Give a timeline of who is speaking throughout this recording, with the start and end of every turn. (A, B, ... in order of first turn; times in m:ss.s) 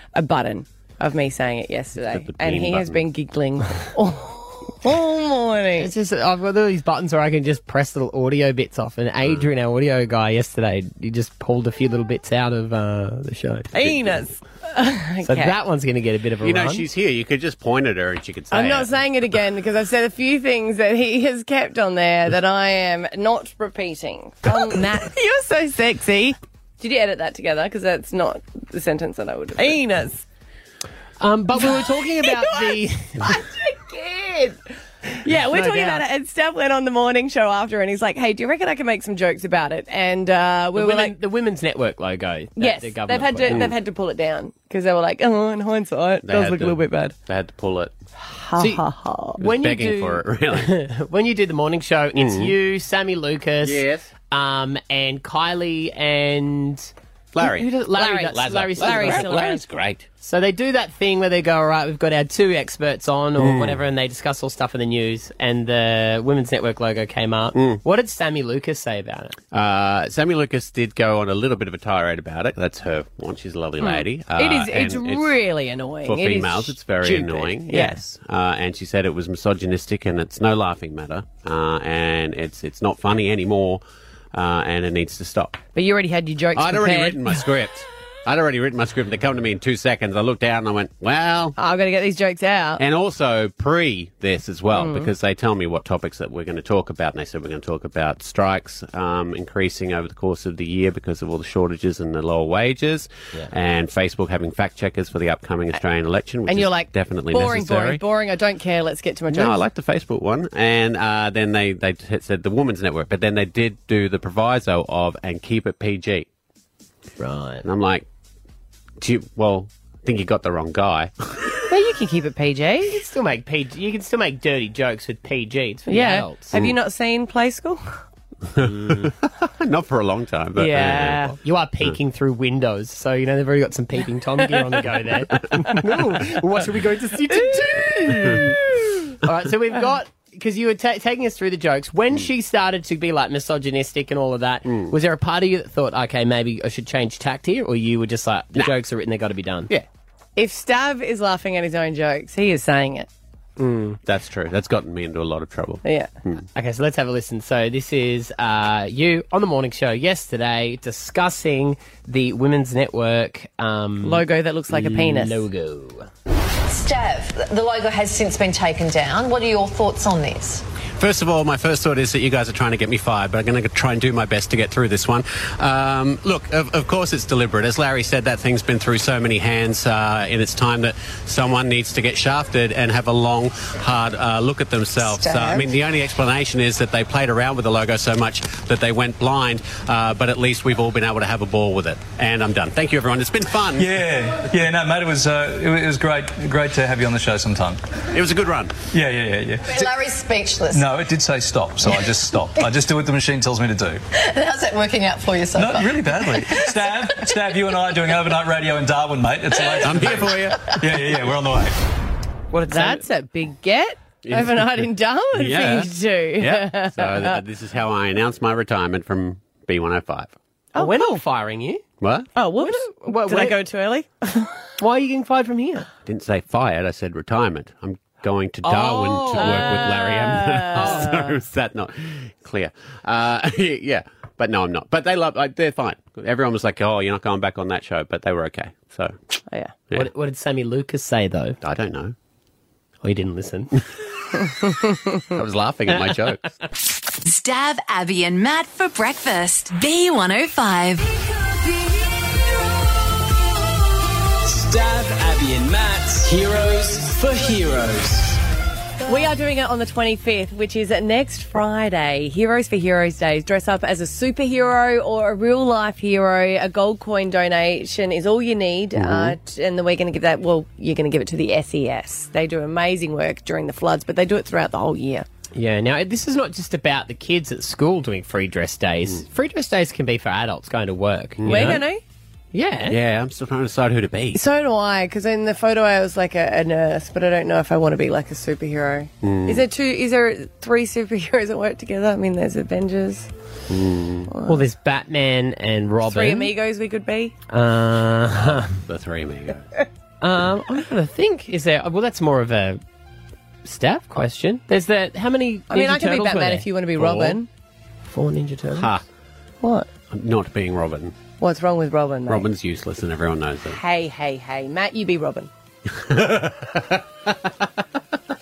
0:00.1-0:05.9 A
0:02.1-0:03.0 B
0:05.8-0:14.2 C
0:09.2-0:09.5 B
0:13.7-0:15.5 A
0:15.2-0:16.9 C
0:16.4-0:18.9 B
0:18.5-0:30.2 A
0:31.2-0:33.4 C
0:31.6-0:34.6 A
0:35.2-0:41.1 A
0:35.3-0:36.0 C
0:40.8-0:43.7 C
0:42.6-0:47.2 A
0:43.5-0:43.7 B
0:46.2-0:47.9 B
0:48.2-0:49.4 A
0:48.6-0:48.8 C
0:49.4-0:56.9 C
0:49.4-0:50.7 B
0:52.2-0:52.5 B
0:53.6-0:54.1 B
0:57.3-1:00.1 B
0:57.4-0:59.5 C
0:57.9-0:59.6 A
1:00.2-1:09.4 C
1:03.4-1:03.8 B
1:07.5-1:07.8 B
1:09.5-1:15.3 B
1:13.8-1:18.0 A
1:16.0-1:23.8 B
1:24.3-1:25.6 B
1:25.7-1:27.4 A
1:26.6-1:31.6 B
1:31.6-1:32.8 A
1:32.8-1:48.0 B
1:34.7-1:35.1 A
1:46.5-1:49.6 A
1:49.3-1:56.3 B
1:57.2-1:57.6 C
1:57.6-1:58.1 B
1:59.0-2:01.6 B
2:01.7-2:03.0 A
2:02.9-2:06.5 C
2:05.9-2:08.0 A
2:08.6-2:12.0 B
2:08.7-2:09.0 C
2:10.6-2:29.7 C
2:24.6-2:24.9 B
2:30.4-2:33.1 A
2:33.6-2:36.5 B
2:35.8-2:36.1 A
2:36.6-2:46.1 C
2:44.0-2:45.4 A
2:46.7-2:50.6 D
2:51.0-3:14.0 B
3:05.0-3:05.7 D
3:13.7-3:17.8 E
3:18.1-3:18.8 B
3:18.9-3:20.0 E
3:19.6-3:20.9 D
3:20.7-3:24.0 E
3:24.1-3:28.0 D
3:25.5-3:31.8 E
3:29.8-3:30.7 B
3:30.4-3:30.8 D
3:32.5-3:33.0 C
3:32.7-3:37.4 A
3:34.2-3:34.7 B
3:35.3-3:40.3 B
3:40.7-3:41.2 A
3:40.8-3:41.8 C
3:42.0-3:42.3 B
3:42.4-3:44.5 A
3:42.6-3:43.6 C
3:44.8-3:45.9 C
3:46.1-3:59.2 B
3:48.6-3:50.0 C
3:49.3-3:51.3 A
3:50.8-3:51.2 C
3:59.9-4:01.6 C
4:01.6-4:02.2 B
4:03.0-4:03.8 C
4:05.3-4:06.4 B
4:05.9-4:06.4 C
4:07.2-4:11.1 F
4:14.4-4:18.4 G
4:19.1-4:35.2 A
4:29.0-4:29.4 B
4:35.6-4:41.8 C
4:41.4-4:41.8 B
4:41.5-4:42.0 A
4:42.5-4:43.0 C
4:42.9-4:44.4 B
4:44.3-4:53.3 A
4:49.2-4:49.6 B
4:53.7-4:54.3 B
4:54.3-4:54.6 A
4:54.5-4:56.5 C
4:56.1-4:57.3 A
4:57.5-4:58.8 C
4:58.4-4:59.7 B
5:00.2-5:02.8 C
5:03.6-5:06.7 C
5:05.7-5:07.5 A
5:07.0-5:07.4 B
5:08.1-5:09.0 C
5:08.7-5:09.0 B
5:09.6-5:09.9 A
5:10.1-5:11.2 B
5:11.4-5:12.5 A
5:12.3-5:13.8 B
5:13.7-5:15.5 A
5:15.9-5:17.6 B